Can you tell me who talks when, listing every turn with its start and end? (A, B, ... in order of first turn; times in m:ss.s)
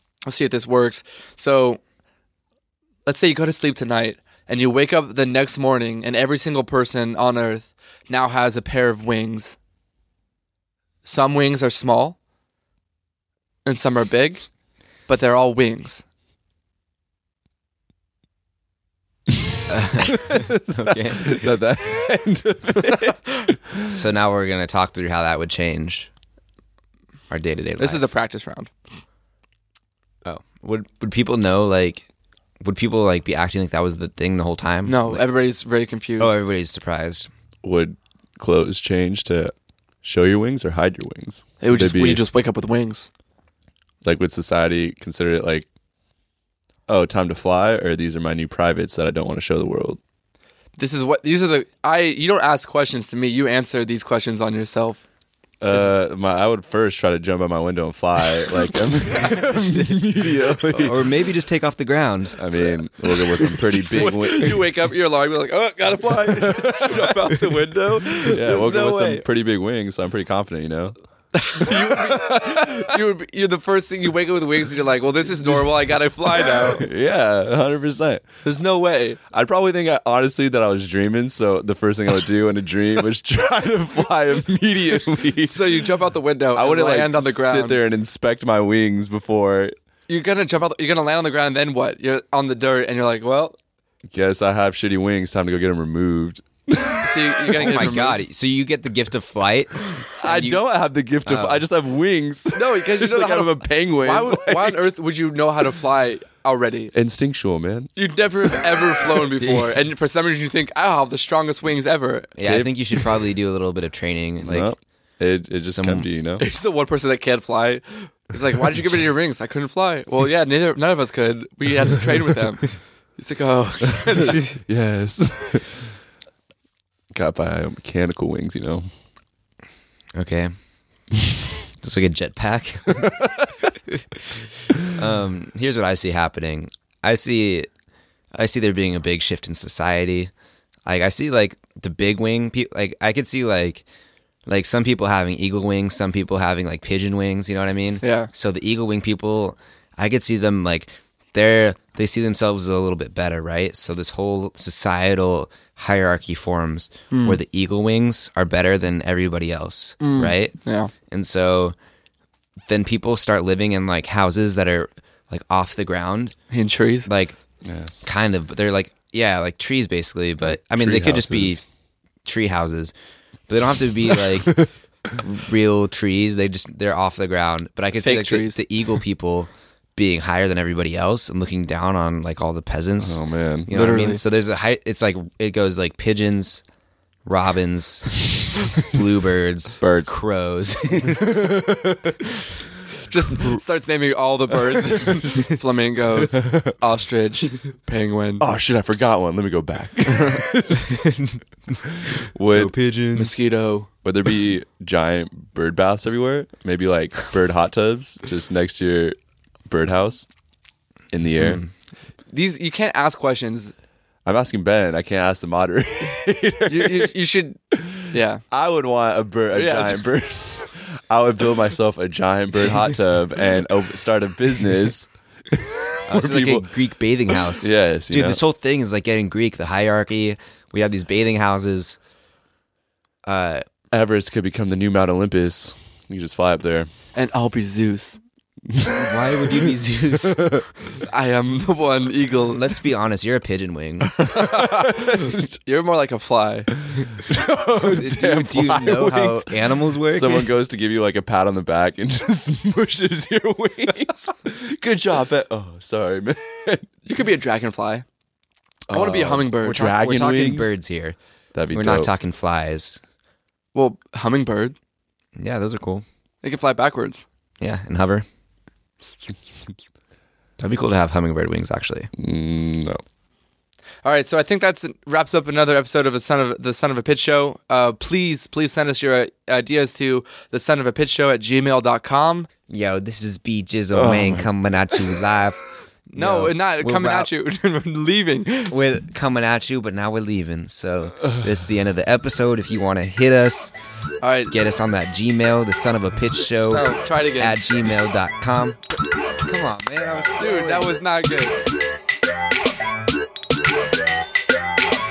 0:00.2-0:01.8 A
0:03.0-0:09.6 A
0:11.0-0:12.2 A
0:13.6-0:14.4 A
0:15.1-0:16.0 A
0:19.7-0:21.5 B
0:20.0-0:24.0 C
0:23.9-0:26.1 B
0:27.3-0:28.0 B
0:27.8-0:28.7 A
0:30.2-0:32.0 B
0:32.6-0:35.2 B
0:34.8-0:36.4 A
0:36.2-0:37.3 B
0:37.6-0:42.2 C
0:41.6-0:43.1 A
0:44.0-0:45.7 C
0:46.9-0:50.0 C
0:50.8-0:55.0 A
0:55.6-1:01.1 C
0:59.1-1:02.4 B
1:02.4-1:04.7 C
1:03.4-1:09.2 A
1:06.1-1:10.9 C
1:11.3-1:16.8 A
1:11.6-1:12.7 C
1:16.4-1:18.3 C
1:18.4-1:19.2 A
1:19.3-1:25.8 C
1:25.4-1:27.8 A
1:26.5-1:29.7 C
1:30.1-1:33.6 A
1:34.1-1:38.1 C
1:37.0-1:38.2 A
1:37.5-1:40.6 B
1:39.9-1:44.9 C
1:41.2-1:41.6 B
1:42.5-1:46.9 A
1:46.9-1:47.9 C
1:48.0-1:52.3 A
1:52.4-1:54.7 B
1:52.4-1:52.7 C
1:54.4-1:56.4 C
1:55.7-1:56.1 B
1:56.4-2:04.4 A
2:04.3-2:05.9 C
2:07.1-2:08.9 C
2:10.1-2:10.5 B
2:11.8-2:13.3 B
2:12.9-2:13.2 C
2:14.9-2:17.7 B
2:18.3-2:20.3 B
2:20.8-2:23.8 B
2:24.5-2:40.6 B
2:28.0-2:28.3 A
2:37.1-2:37.4 A
2:40.0-2:40.9 A
2:41.1-2:41.7 B
2:42.7-2:46.3 B
2:46.5-2:47.1 A
2:47.0-2:47.4 B
2:47.6-2:48.1 C
2:48.0-2:51.6 B
2:50.7-2:51.6 C
2:52.2-2:52.9 B
2:53.5-3:06.6 B
2:58.0-2:59.0 A
3:03.0-3:04.2 C
3:07.2-3:08.2 B
3:08.8-3:11.5 B
3:09.8-3:10.1 C
3:11.1-3:12.1 C
3:13.1-3:18.4 A
3:18.4-3:20.9 C
3:20.2-3:23.4 B
3:22.0-3:22.7 C
3:23.1-3:23.9 A
3:24.0-3:30.3 C
3:31.1-3:31.6 C
3:31.4-3:31.7 B
3:32.3-3:33.7 A
3:34.2-3:37.1 C
3:36.7-3:37.6 A
3:37.7-3:46.7 C
3:38.1-3:38.4 A
3:39.5-3:40.0 A
3:46.1-3:52.0 B
3:47.3-3:48.4 C
3:53.2-3:53.6 B
3:53.9-3:56.9 C
3:57.1-3:58.2 A
3:58.7-3:59.6 C
3:58.8-4:00.5 B
4:00.2-4:00.6 C
4:01.0-4:02.6 A
4:02.5-4:04.1 B
4:04.2-4:06.7 A
4:04.4-4:05.6 C
4:07.0-4:16.9 C
4:07.8-4:10.5 B
4:17.0-4:18.0 A
4:18.9-4:20.7 C
4:18.9-4:19.9 A
4:19.6-4:21.2 B
4:21.5-4:22.1 C
4:21.7-4:23.0 B
4:23.7-4:24.8 A
4:25.4-4:26.0 B
4:26.4-4:27.2 A
4:27.6-4:28.2 B
4:30.6-4:32.1 B
4:32.2-4:33.0 C
4:34.0-4:42.5 A
4:42.7-4:45.6 B
4:43.9-4:44.5 C
4:46.1-4:48.7 A
4:46.2-4:47.3 B
4:48.7-4:53.7 B
4:54.2-4:54.5 A
4:54.5-4:58.8 B
4:56.7-4:57.6 A
4:59.4-5:01.0 B
5:00.4-5:01.6 A